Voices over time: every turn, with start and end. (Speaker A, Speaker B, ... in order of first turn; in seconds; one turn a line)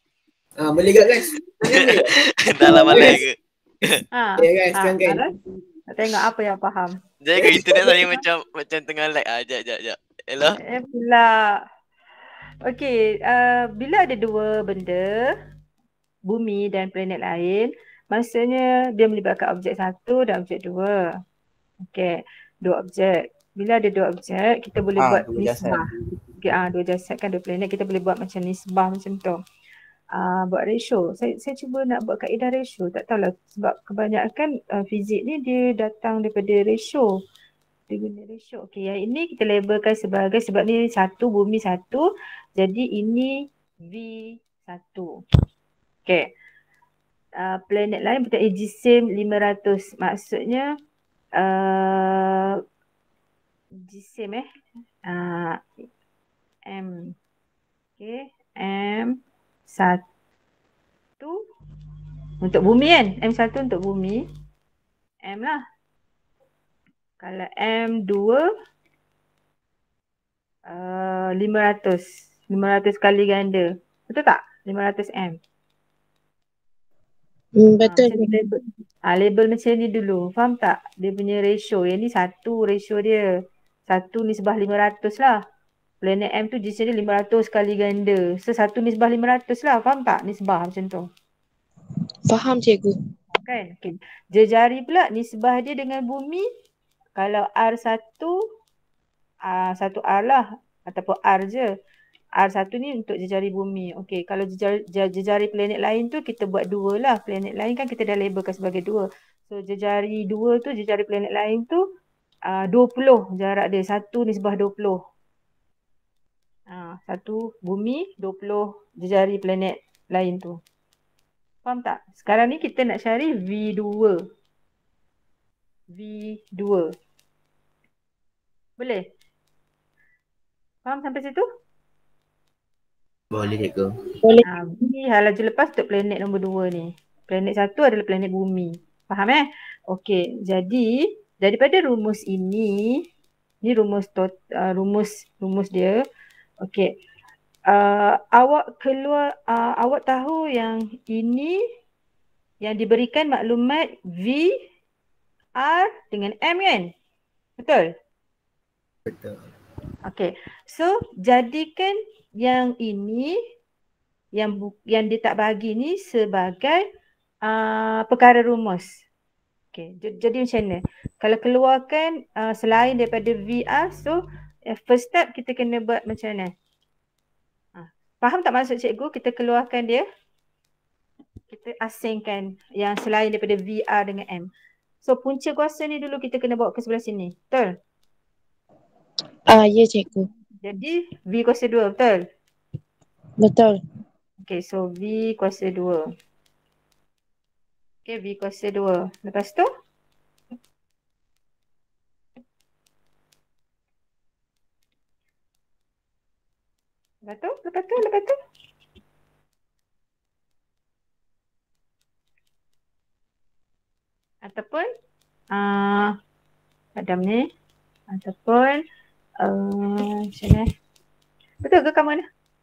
Speaker A: 0.6-3.2
Speaker B: 1.7-3.4
Speaker C: 4.1-5.3
Speaker A: 4.4-5.3
Speaker C: 5.9-7.0
Speaker B: 7.2-10.6
Speaker C: 7.7-8.2
Speaker C: 10.6-11.6
Speaker C: 12.7-15.3
Speaker C: 16.3-21.0
Speaker C: 21.9-25.9
Speaker D: 25.0-25.9
Speaker C: 26.4-29.4
Speaker C: 30.1-37.1
Speaker C: 37.9-42.0
Speaker C: 42.6-43.3
Speaker C: 43.9-45.1
Speaker C: 47.4-50.7
Speaker C: 51.4-52.5
Speaker C: 53.9-54.5
Speaker C: 55.1-55.6
Speaker C: 56.7-57.1
Speaker C: 58.0-59.2
Speaker C: 59.7-60.0
Speaker C: 62.4-64.2
Speaker C: 65.2-65.6
Speaker C: 67.2-68.5
Speaker C: 70.7-75.4
Speaker E: 77.6-78.5
Speaker C: 77.8-83.2
Speaker C: 83.9-85.4
Speaker C: 86.0-91.0
Speaker E: 92.3-93.0
Speaker C: 93.3-96.5
Speaker C: 97.2-98.3
Speaker C: 99.5-101.7
Speaker C: 102.4-111.8
Speaker C: 112.5-115.0
Speaker C: 116.7-120.6
Speaker C: 121.7-124.2
Speaker C: 125.9-126.9
Speaker C: 130.8-131.4
Speaker D: 133.3-133.9
Speaker C: 134.5-143.0
Speaker C: 143.6-146.0
Speaker C: 146.6-146.9
Speaker C: 147.7-151.6
Speaker C: 152.6-154.5
Speaker C: 155.6-156.9
Speaker C: 157.6-157.9
Speaker D: 159.1-159.4
Speaker C: 160.1-163.3
Speaker C: 164.4-166.8
Speaker C: 167.5-168.9
Speaker C: 169.7-176.5
Speaker C: 177.8-180.0
Speaker C: 181.5-184.5
Speaker C: 185.0-187.7
Speaker E: 189.5-190.3
Speaker C: 190.6-192.2
Speaker E: 193.4-193.8
Speaker C: 194.4-196.1
Speaker C: 198.1-199.7
Speaker C: 207.2-208.4
Speaker C: 214.4-214.9
Speaker C: 215.5-216.1
Speaker C: 217.0-217.4
Speaker C: 218.1-218.8
Speaker C: 219.4-220.7
Speaker C: 221.6-222.2